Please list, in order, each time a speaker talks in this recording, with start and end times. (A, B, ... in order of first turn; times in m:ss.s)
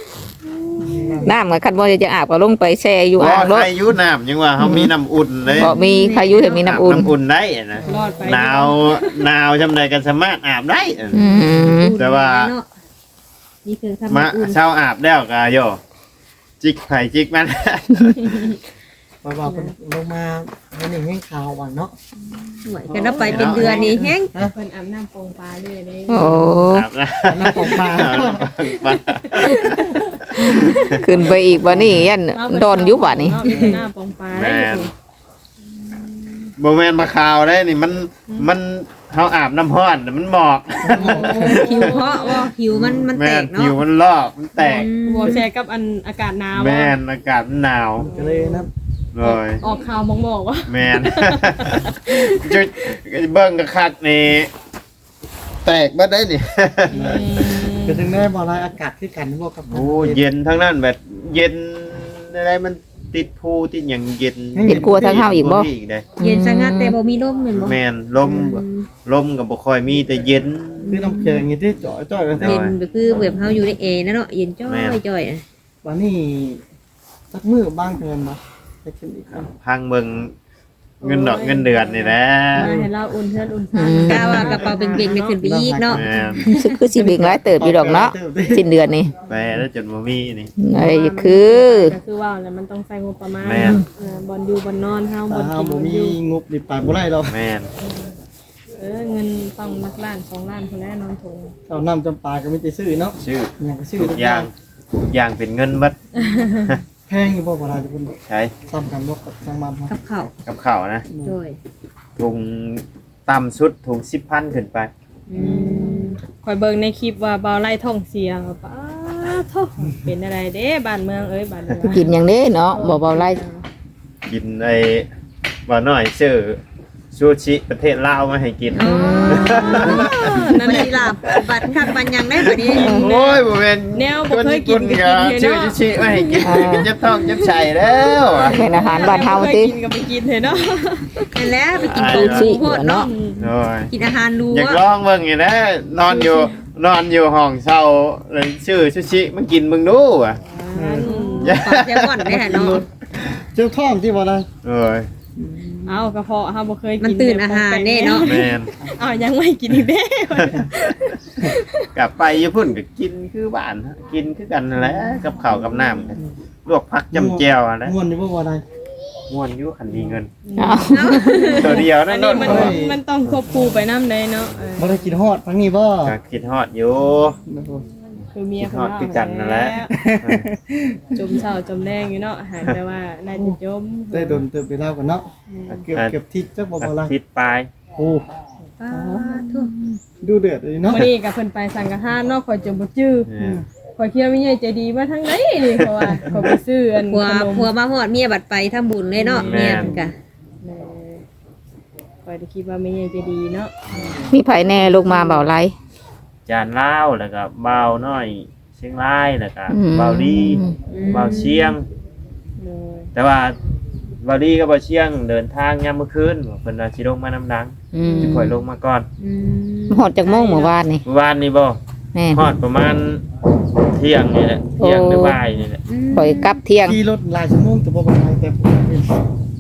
0:00.4-0:01.3 A
0:00.8-0:01.4 B
0:01.2-0:03.7 C
0:03.2-0:05.7 D
0:04.6-0:04.9 B
0:05.5-0:06.6 E
0:05.6-0:07.1 C
0:06.6-0:11.3 D
0:07.8-0:08.5 B
0:07.9-0:09.2 A
0:11.1-0:12.0 C
0:11.4-0:11.7 B
0:11.6-0:12.7 E
0:12.0-0:12.5 D
0:13.6-0:14.6 E
0:14.1-0:15.8 D
0:16.6-0:18.6 D
0:18.2-0:18.5 A
0:19.2-0:22.0 B
0:19.4-0:19.7 E
0:22.6-0:24.3 E
0:22.9-0:24.5 B
0:23.2-0:23.9 A
0:23.2-0:23.8 D
0:24.4-0:26.6 A
0:26.1-0:26.9 C
0:26.7-0:30.8 D
0:27.3-0:28.5 B
0:29.3-0:31.0 A
0:29.4-0:29.9 B
0:31.0-0:33.4 C
0:31.7-0:32.0 B
0:32.3-0:34.9 A
0:33.5-0:33.8 E
0:34.3-0:34.9 D
0:35.9-0:36.5 A
0:36.6-0:45.4 D
0:40.8-0:41.9 B
0:40.9-0:42.5 A
0:41.2-0:43.8 E
0:44.6-0:45.4 E
0:45.1-0:47.0 A
0:46.5-0:48.1 D
0:48.0-0:48.7 B
0:48.1-0:48.6 A
0:49.1-0:49.6 D
0:49.2-0:52.7 A
0:50.7-0:54.5 D
0:55.6-0:57.3 D
0:56.9-0:58.2 A
0:56.9-1:00.2 B
0:59.7-1:06.1 D
1:04.5-1:05.3 B
1:04.7-1:07.0 C
1:06.2-1:07.8 E
1:07.6-1:10.9 D
1:08.2-1:08.6 B
1:08.5-1:08.9 E
1:10.9-1:11.5 E
1:10.9-1:12.6 B
1:12.4-1:12.8 D
1:12.4-1:15.4 E
1:14.7-1:15.0 D
1:15.8-1:16.6 B
1:17.3-1:19.5 B
1:19.3-1:20.3 D
1:21.0-1:25.4 A
1:21.0-1:22.7 D
1:22.6-1:22.9 B
1:23.7-1:24.5 C
1:24.0-1:26.0 E
1:24.4-1:28.6 B
1:25.9-1:26.4 D
1:26.4-1:29.1 C
1:29.3-1:30.5 D
1:30.6-1:32.0 C
1:30.8-1:36.2 A
1:33.4-1:33.8 D
1:33.6-1:33.8 C
1:35.3-1:37.4 B
1:37.3-1:37.7 D
1:38.8-1:41.5 A
1:41.7-1:44.5 B
1:43.2-1:46.0 D
1:46.2-1:46.7 A
1:46.5-1:46.8 D
1:47.1-1:48.1 B
1:48.2-1:48.5 D
1:48.7-1:49.9 B
1:49.9-1:50.3 E
1:50.4-1:51.1 D
1:51.1-1:51.4 B
1:51.2-1:51.6 E
1:52.2-1:54.9 D
1:55.3-1:56.2 E
1:55.4-1:55.9 B
1:55.4-2:02.1 A
2:01.8-2:03.4 C
2:02.7-2:03.6 A
2:04.2-2:05.1 D
2:05.6-2:06.6 D
2:07.1-2:11.8 D
2:08.7-2:12.9 E
2:08.8-2:10.1 C
2:09.6-2:11.4 A
2:12.3-2:19.2 D
2:12.6-2:21.3 A
2:12.8-2:13.1 C
2:16.4-2:16.9 C
2:18.4-2:19.8 C
2:21.3-2:23.1 E
2:21.8-2:22.5 D
2:22.0-2:23.1 C
2:23.0-2:23.4 A
2:23.4-2:23.9 D
2:23.9-2:24.8 E
2:24.5-2:30.4 D
2:26.1-2:26.5 A
2:30.5-2:31.6 A
2:30.7-2:31.3 B
2:31.0-2:32.8 E
2:31.4-2:32.2 D
2:32.2-2:34.5 B
2:34.6-2:35.1 D
2:35.4-2:36.1 B
2:35.9-2:41.8 A
2:37.0-2:38.4 E
2:38.2-2:38.7 D
2:40.3-2:41.2 D
2:41.9-2:48.0 D
2:47.1-2:48.6 B
2:49.3-2:50.3 D
2:49.9-2:50.2 B
2:50.5-2:55.2 A
2:50.6-2:51.3 C
2:50.9-2:51.8 E
2:51.4-2:52.8 D
2:52.4-2:53.0 B
2:53.5-2:53.9 B
2:54.8-2:56.1 B
2:56.0-2:57.4 D
2:57.5-2:57.8 B
2:58.3-2:59.9 A
2:58.6-3:00.5 D
2:59.9-3:01.3 B
3:01.2-3:04.4 A
3:04.1-3:05.3 B
3:05.5-3:05.8 A
3:05.8-3:07.1 B
3:05.9-3:06.2 D
3:06.8-3:07.7 D
3:08.0-3:08.3 B
3:08.8-3:09.7 E
3:08.9-3:11.1 B
3:10.9-3:13.3 A
3:13.3-3:13.6 D
3:14.0-3:17.7 A
3:15.8-3:16.2 D
3:17.0-3:20.1 E
3:19.2-3:20.0 A
3:19.4-3:20.0 D
3:19.5-3:20.0 B
3:20.6-3:21.2 A
3:22.2-3:24.2 A
3:23.9-3:24.2 D
3:24.3-3:25.7 C
3:24.9-3:25.5 A
3:26.5-3:31.8 D
3:29.7-3:30.8 C
3:30.9-3:31.7 A
3:30.9-3:31.6 E
3:32.6-3:33.1 A
3:33.1-3:33.6 D
3:34.2-3:39.1 D
3:37.9-3:38.6 C
3:39.2-3:40.1 E
3:39.9-3:41.0 C
3:40.2-3:40.7 A
3:41.0-3:41.8 D
3:42.1-3:42.5 C
3:42.3-3:43.2 D
3:43.8-3:45.8 D
3:44.8-3:45.4 C
3:45.9-3:46.6 E
3:46.1-3:47.0 C
3:46.8-3:49.2 B